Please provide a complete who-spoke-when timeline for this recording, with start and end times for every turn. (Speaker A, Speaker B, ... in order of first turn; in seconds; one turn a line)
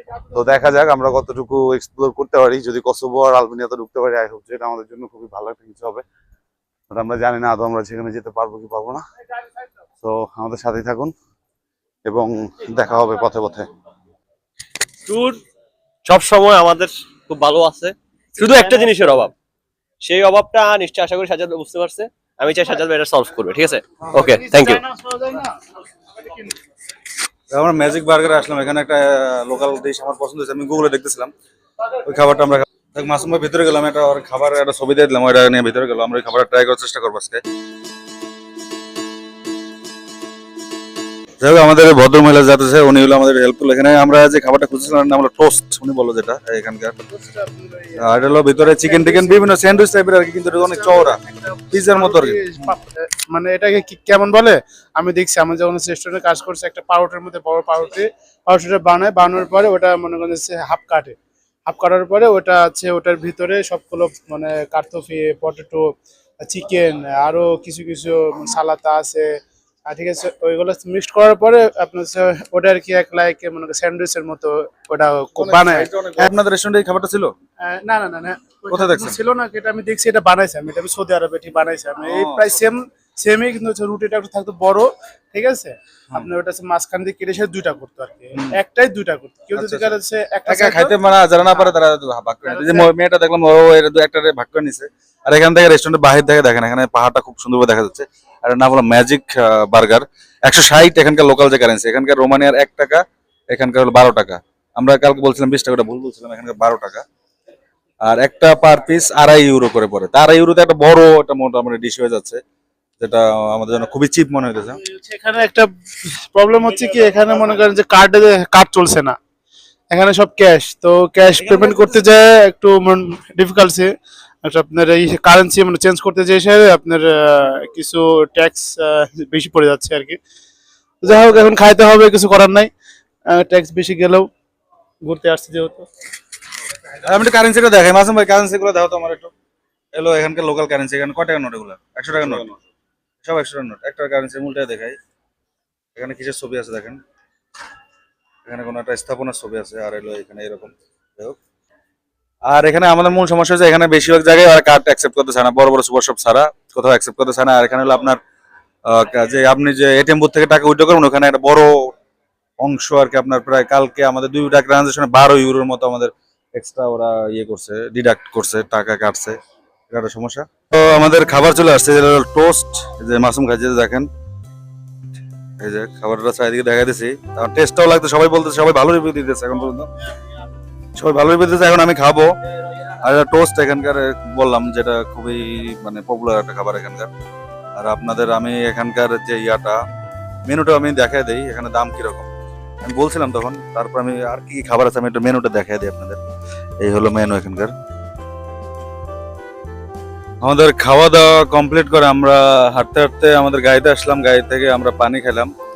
Speaker A: 0.3-6.0
Speaker A: 6.9-9.0
Speaker A: 10.0-11.1
Speaker A: 12.1-13.6
Speaker B: 15.0-15.4
Speaker B: 16.1-19.3
Speaker C: 18.6-19.0
Speaker B: 20.0-24.8
Speaker C: 24.1-25.5
Speaker D: 27.5-31.3
Speaker D: 32.0-37.4
Speaker D: 41.4-46.9
Speaker C: 47.1-49.8
Speaker D: 48.0-51.2
Speaker C: 50.5-61.1
Speaker D: 51.7-52.7
Speaker C: 61.7-69.3
Speaker C: 69.9-76.3
Speaker D: 75.4-77.3
Speaker C: 77.6-91.0
Speaker D: 78.7-79.2
Speaker D: 82.0-82.6
Speaker D: 89.5-89.9
Speaker D: 90.5-107.0
Speaker C: 92.5-92.9
Speaker D: 108.0-112.4
Speaker D: 113.0-114.8
Speaker C: 114.8-119.2
Speaker C: 119.9-123.9
Speaker D: 121.3-122.0
Speaker C: 124.4-130.2
Speaker C: 131.0-132.7
Speaker C: 133.3-134.3
Speaker C: 135.1-135.9
Speaker D: 136.9-139.3
Speaker D: 139.9-142.5
Speaker D: 143.2-144.9
Speaker D: 145.9-147.0
Speaker D: 148.4-151.4
Speaker D: 152.5-158.2
Speaker D: 158.9-161.9
Speaker D: 162.6-169.3
Speaker D: 169.9-174.1
Speaker D: 175.6-179.9
Speaker D: 180.9-182.3
Speaker D: 183.0-187.1
Speaker D: 187.8-189.8
Speaker D: 190.5-192.3
Speaker D: 192.8-196.2
Speaker D: 196.8-197.7
Speaker D: 200.4-205.5